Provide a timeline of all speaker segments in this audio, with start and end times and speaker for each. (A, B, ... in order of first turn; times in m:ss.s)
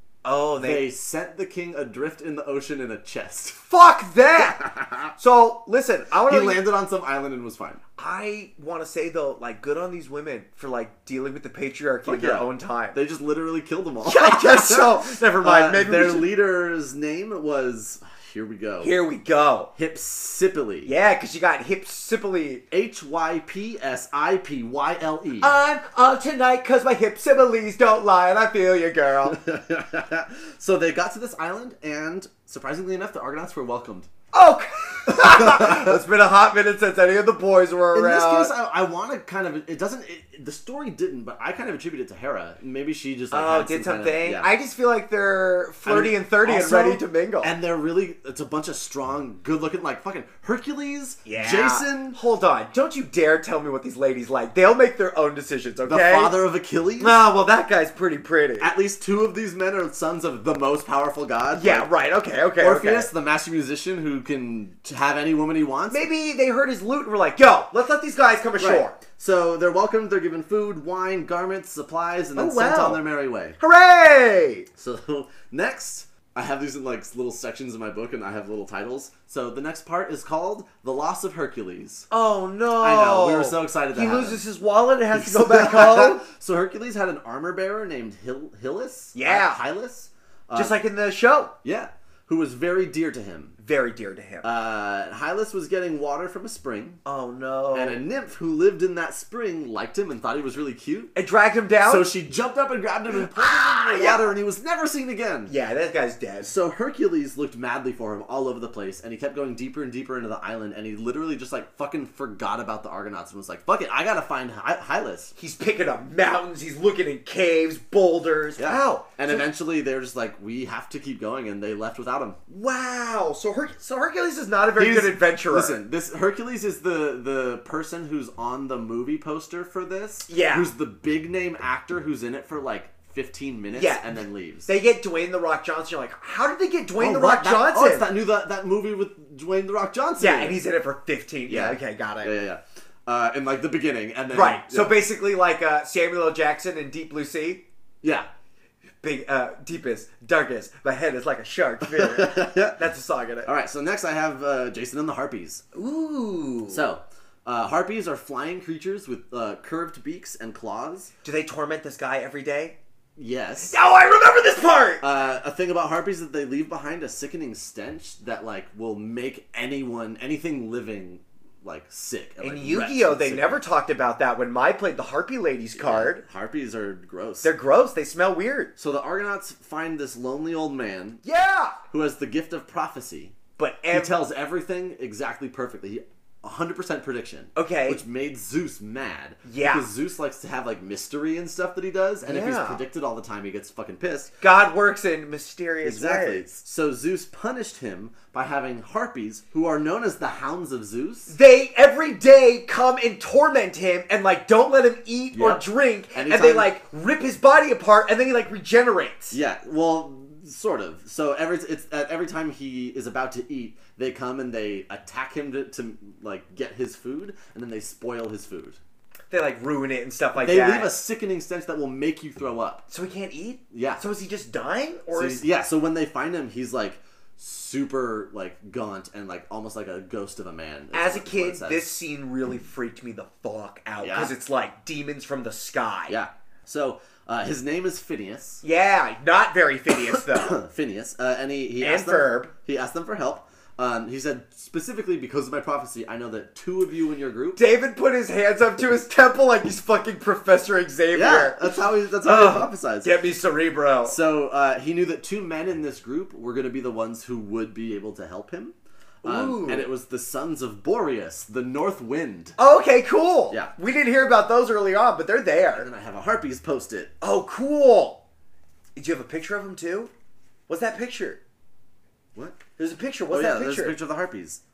0:00.2-0:00.9 A
0:00.6-0:03.6 B
0:03.7-0:06.6 A
0:04.6-0:05.1 B
0:06.2-0:07.8 B
0:08.0-0:13.0 A
0:12.0-0:18.9 B
0:14.0-0:16.3 A
0:18.8-0:19.7 A
0:19.7-0:20.9 B
0:20.8-0:22.6 A
0:22.7-0:25.5 B
0:25.4-0:29.4 A
0:29.2-0:34.1 B
0:34.3-0:38.5 A
0:35.2-0:36.0 B
0:37.9-0:44.5 B
0:43.3-0:47.5 A
0:45.8-0:52.2 B
0:51.2-0:56.3 A
0:55.8-0:57.2 B
0:57.0-0:58.7 A
0:58.6-1:01.9 B
1:01.5-1:03.1 A
1:02.6-1:06.1 B
1:05.9-1:09.0 A
1:08.6-1:13.6 B
1:12.4-1:13.0 A
1:13.6-1:14.7 A
1:14.8-1:22.1 B
1:22.1-1:26.2 A
1:22.8-1:24.4 B
1:25.1-1:30.8 B
1:29.1-1:29.6 A
1:30.5-1:31.5 A
1:31.6-1:33.6 B
1:33.6-1:34.5 A
1:34.4-1:37.0 B
1:37.0-1:38.0 A
1:37.7-1:41.1 B
1:41.1-1:42.1 A
1:41.8-1:45.5 B
1:43.2-1:44.3 A
1:45.5-1:46.5 A
1:46.4-1:55.3 B
1:55.4-1:59.4 A
1:58.6-2:02.4 B
2:02.5-2:05.8 A
2:04.8-2:14.7 B
2:10.3-2:10.7 A
2:13.7-2:18.1 A
2:17.0-2:20.6 B
2:20.2-2:22.3 A
2:21.5-2:25.0 B
2:24.3-2:27.6 A
2:28.0-2:28.3 B
2:29.0-2:33.5 A
2:31.8-2:32.8 B
2:33.4-2:35.6 B
2:35.7-2:36.9 A
2:36.7-2:41.1 B
2:41.2-2:42.8 A
2:43.2-2:43.8 B
2:43.6-2:45.0 A
2:45.0-2:53.6 B
2:52.4-2:56.2 A
2:55.8-2:57.5 B
2:57.4-2:58.7 A
2:58.8-3:01.2 B
3:01.2-3:01.8 A
3:01.9-3:03.4 B
3:03.6-3:04.1 A
3:03.9-3:14.3 B
3:07.5-3:08.0 A
3:09.4-3:09.9 A
3:12.2-3:12.8 A
3:14.4-3:16.4 A
3:15.8-3:21.3 B
3:21.3-3:29.4 A
3:25.3-3:26.7 B
3:29.3-3:38.8 B
3:39.3-3:40.9 A
3:40.4-3:42.8 B
3:42.9-3:45.4 A
3:43.7-3:44.0 B
3:45.1-3:51.9 B
3:50.9-3:56.2 A
3:54.0-3:54.3 B
3:56.1-3:58.6 B
3:58.6-4:00.6 A
4:00.0-4:07.6 B
4:01.8-4:02.5 A
4:07.6-4:14.2 A
4:11.1-4:13.1 B
4:14.0-4:22.6 B
4:19.2-4:19.9 A
4:22.6-4:25.9 A
4:25.7-4:27.1 B
4:27.2-4:28.2 A
4:29.0-4:30.1 A
4:30.7-4:31.4 A
4:32.3-4:32.6 B
4:32.8-4:34.0 A
4:33.3-4:34.6 B